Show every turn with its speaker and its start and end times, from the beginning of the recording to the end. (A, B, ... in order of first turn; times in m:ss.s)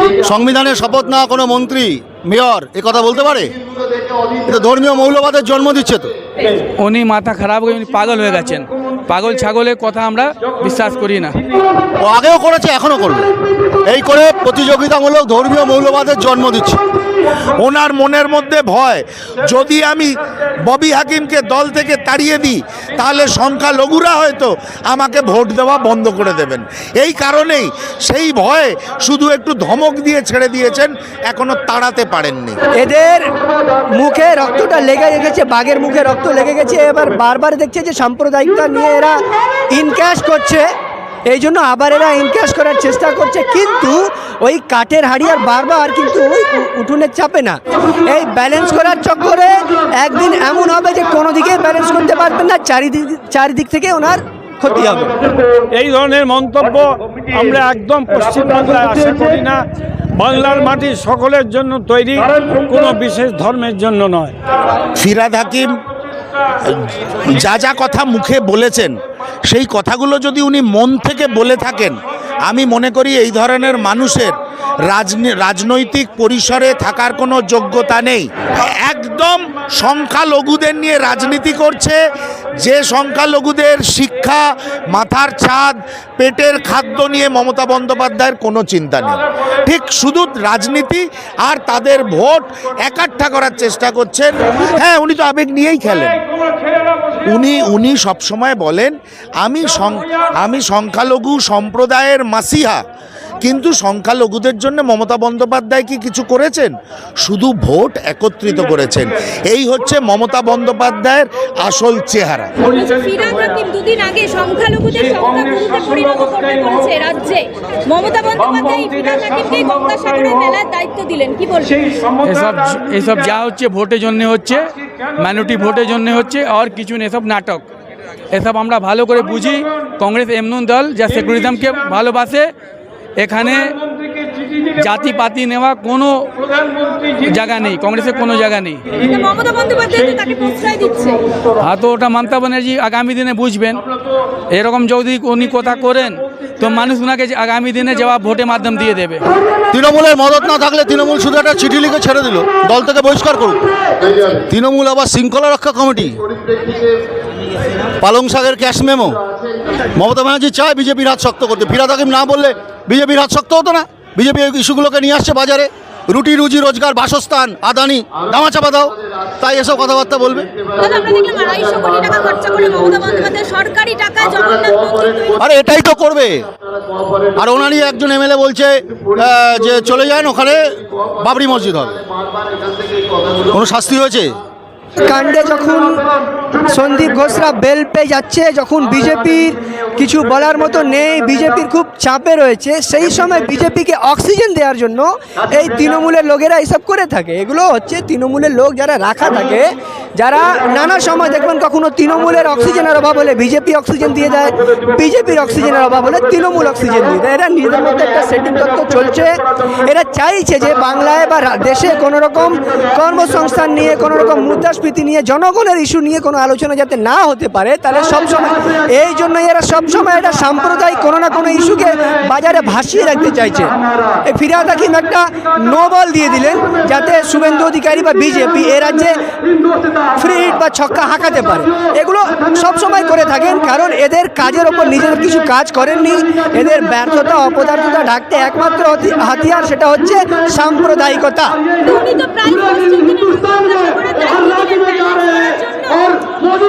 0:00.2-0:03.5 A
0:04.3-0:06.1 A
0:06.5-0:11.5 B
0:12.0-0:13.3 A
0:13.8-0:16.8 A
0:17.5-0:20.1 C
0:20.6-0:32.6 C
0:32.7-0:39.2 D
0:39.7-0:40.6 D
0:41.3-0:55.2 D
0:55.7-0:59.6 E
1:00.2-1:04.4 E
1:04.9-1:05.7 C
1:06.7-1:14.3 C
1:14.9-1:22.0 C
1:22.6-1:36.2 C
1:37.2-1:42.8 C
1:43.4-1:46.7 C
1:47.2-1:52.5 C
1:52.6-2:01.9 F
2:02.2-2:07.6 B
2:08.3-2:12.5 B
2:13.2-2:13.8 B
2:13.9-2:14.5 E
2:14.6-2:18.9 B
2:16.6-2:17.1 E
2:19.0-2:21.3 F
2:21.6-2:23.8 B
2:24.5-2:29.2 B
2:29.7-2:36.7 A
2:38.0-2:39.2 A
2:40.0-2:50.6 A
2:50.7-2:55.4 F
2:55.4-2:56.5 A
2:57.3-3:02.1 A
3:03.4-3:04.4 A
3:05.0-3:43.7 D
3:44.2-3:49.2 D
3:50.1-4:01.6 D
4:01.8-4:06.5 F